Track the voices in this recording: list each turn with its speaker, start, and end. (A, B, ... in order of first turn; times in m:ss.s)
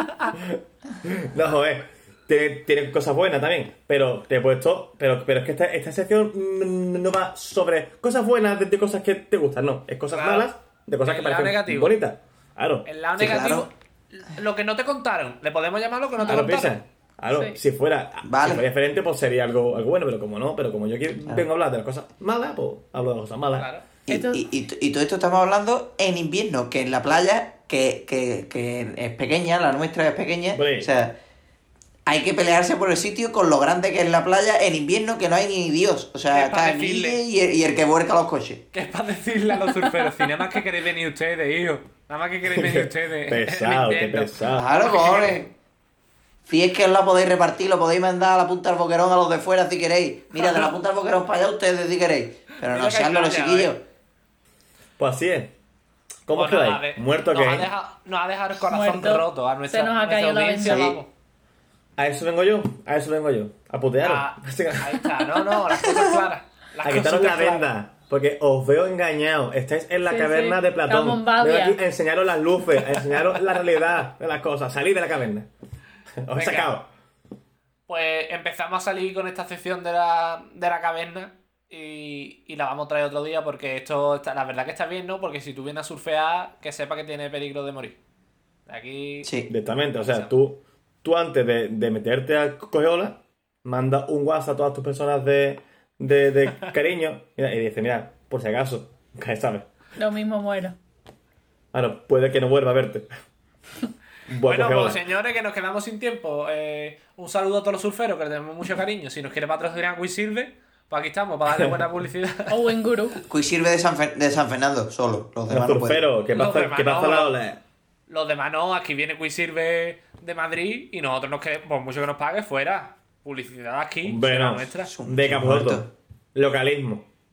0:00.3-0:12.9 A
0:10.1-0:10.5 B
0:11.0-0:12.0 B
0:12.8-0:16.8 B
0:13.2-0:13.7 C
0:16.2-0:23.7 A
0:17.3-0:17.6 D
0:18.2-0:18.6 C
0:23.6-0:23.9 B
0:24.1-0:31.2 C
0:24.1-0:24.4 D
0:30.5-0:30.9 A
0:32.1-0:38.7 C
0:36.3-0:37.2 B
0:38.7-0:45.4 B
0:39.8-0:40.4 D
0:42.5-0:44.7 A
0:44.5-0:45.5 C
0:46.5-0:53.8 C
0:50.4-0:50.7 B
0:52.6-0:53.7 B
0:55.0-0:55.5 A
0:56.3-0:57.7 A
0:56.3-1:01.1 B
0:58.7-1:00.9 D
1:00.6-1:01.0 C
1:02.0-1:05.2 A
1:04.0-1:07.7 B
1:06.8-1:15.5 A
1:10.0-1:11.8 D
1:16.2-1:16.9 A
1:16.4-1:16.7 B
1:17.9-1:28.0 B
1:28.7-1:29.3 B
1:29.2-1:29.5 C
1:29.5-1:39.7 A
1:30.0-1:30.3 B
1:40.0-1:40.8 D
1:41.7-1:43.1 A
1:44.3-1:45.0 A
1:44.4-1:52.7 B
1:52.5-1:53.2 D
1:53.3-1:56.0 C
1:55.5-1:57.6 A
1:56.3-1:57.4 B
1:58.1-2:04.9 B
2:04.0-2:07.1 A
2:04.9-2:05.9 C